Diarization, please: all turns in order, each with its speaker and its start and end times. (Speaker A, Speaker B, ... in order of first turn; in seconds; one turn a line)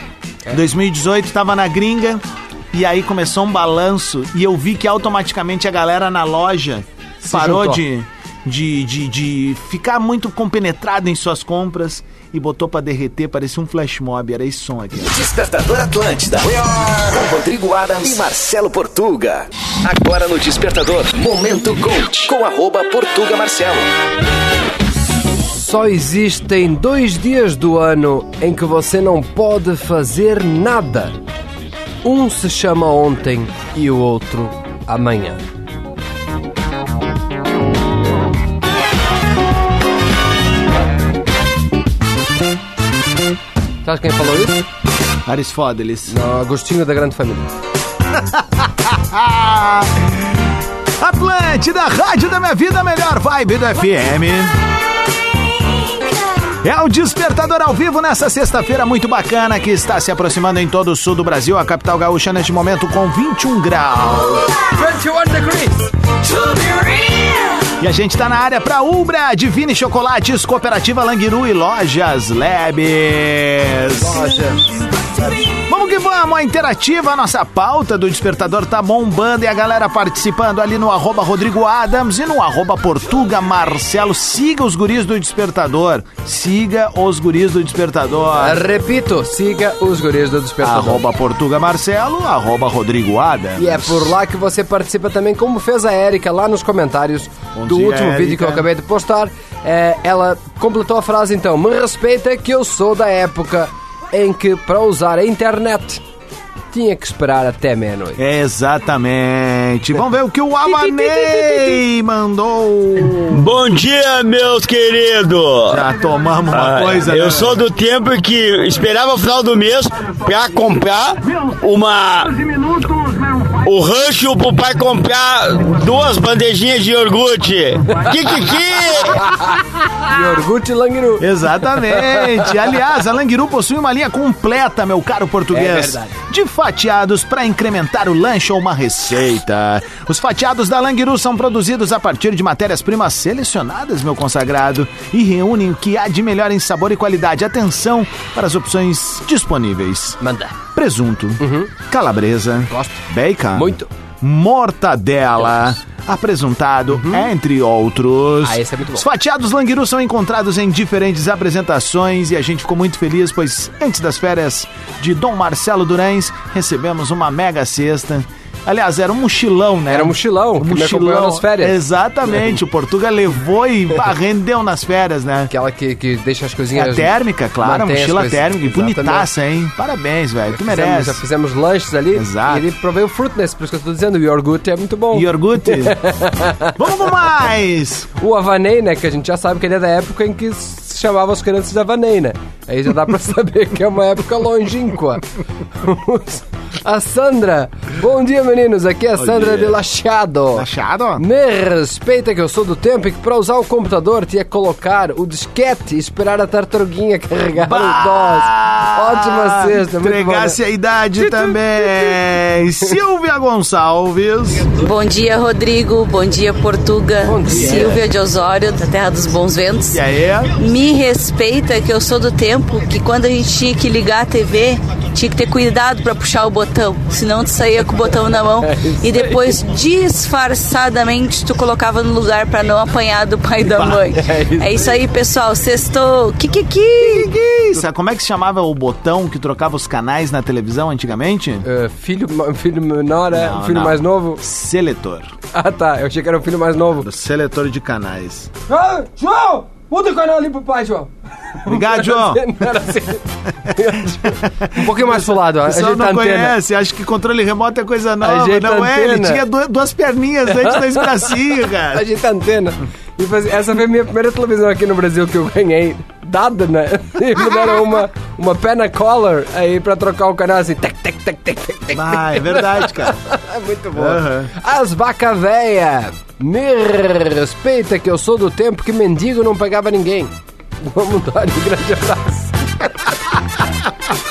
Speaker A: 0.5-15.1
Speaker B: 7.2-7.8
Speaker C: 15.0-23.9
Speaker B: 25.5-31.1
Speaker B: 32.0-35.4
Speaker B: 43.8-44.6
Speaker A: 45.2-46.1
Speaker B: 46.1-47.5
Speaker A: 48.3-50.2
Speaker A: 51.0-54.5
Speaker A: 56.6-64.5
Speaker B: 64.7-65.9
Speaker A: 67.8-74.3
Speaker B: 74.0-74.6
Speaker A: 75.7-88.6
Speaker B: 88.4-91.0
Speaker A: 90.6-94.1
Speaker B: 93.6-106.0
Speaker A: 97.5-98.7
Speaker B: 106.7-108.2
Speaker A: 108.2-113.4
Speaker B: 110.7-111.8
Speaker D: 113.3-115.8
Speaker A: 115.7-117.6
Speaker D: 116.5-122.7
Speaker D: 123.5-129.3
Speaker B: 130.0-131.2
Speaker A: 131.2-150.2
Speaker B: 131.8-132.5
Speaker B: 135.5-136.1
Speaker B: 150.2-150.6
Speaker A: 150.7-175.5
Speaker B: 151.4-151.7
Speaker B: 152.7-153.0
Speaker B: 153.5-153.9
Speaker B: 156.9-157.3
Speaker B: 158.4-159.1
Speaker B: 169.9-171.8
Speaker B: 175.5-179.3
Speaker A: 176.7-181.2
Speaker B: 180.5-186.7
Speaker A: 182.1-182.6
Speaker A: 185.1-186.0
Speaker A: 186.8-188.1
Speaker B: 188.2-195.2
Speaker B: 195.8-200.7
Speaker A: 199.2-199.8
Speaker A: 200.5-201.2
Speaker B: 201.2-210.6
Speaker A: 207.6-214.7
Speaker B: 211.2-212.2
Speaker E: 214.7-220.0
Speaker B: 217.2-218.0
Speaker A: 217.5-217.9
Speaker A: 219.9-220.5
Speaker E: 220.6-237.3
Speaker B: 228.6-229.4
Speaker A: 233.7-234.0
Speaker B: 234.1-235.0
Speaker A: 237.0-241.6
Speaker B: 241.6-244.4
Speaker A: 243.3-245.3
Speaker B: 245.5-247.1
Speaker A: 247.0-248.5
Speaker B: 248.7-251.1
Speaker B: 251.7-256.5
Speaker A: 251.7-252.5
Speaker A: 254.2-262.0
Speaker B: 258.2-259.4
Speaker B: 260.5-261.3
Speaker B: 261.9-283.0
Speaker A: 271.9-273.1
Speaker A: 273.9-274.5